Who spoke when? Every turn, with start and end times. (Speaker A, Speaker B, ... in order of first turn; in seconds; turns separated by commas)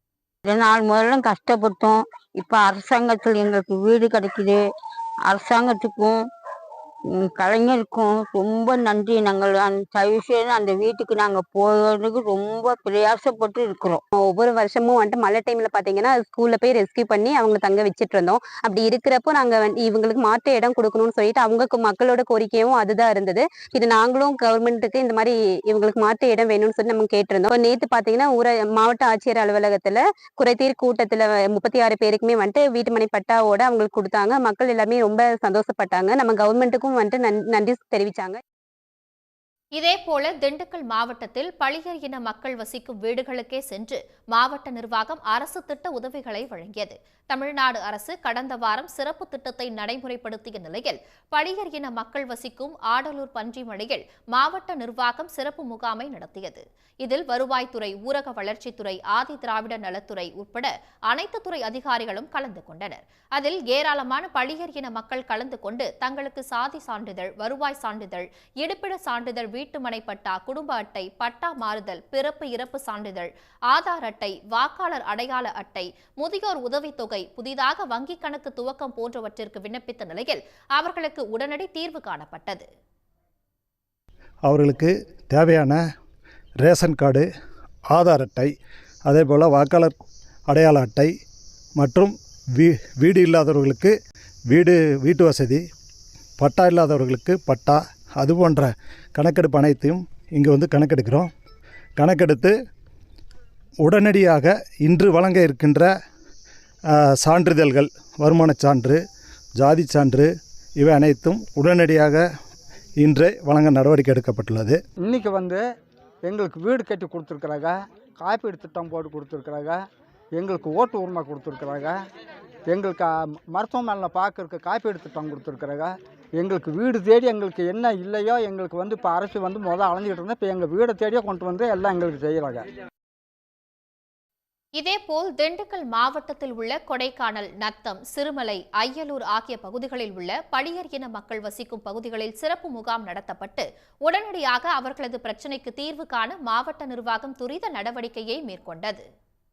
Speaker A: 0.4-4.6, Speaker A: 5.3-6.2, Speaker A: 7.2-14.0, Speaker B: 14.2-38.4, Speaker C: 39.7-82.7, Speaker D: 84.5-85.8, Speaker D: 86.6-87.2, Speaker D: 87.9-88.5, Speaker D: 89.0-89.9, Speaker D: 90.5-91.1, Speaker D: 91.8-93.9, Speaker D: 94.5-95.6, Speaker D: 96.4-101.3, Speaker D: 102.0-102.5, Speaker D: 103.8-105.9, Speaker D: 106.9-109.0, Speaker D: 109.6-112.2, Speaker D: 113.0-114.8, Speaker E: 115.0-115.6, Speaker E: 116.2-119.8, Speaker E: 120.3-122.0, Speaker E: 122.7-132.6, Speaker C: 134.8-149.0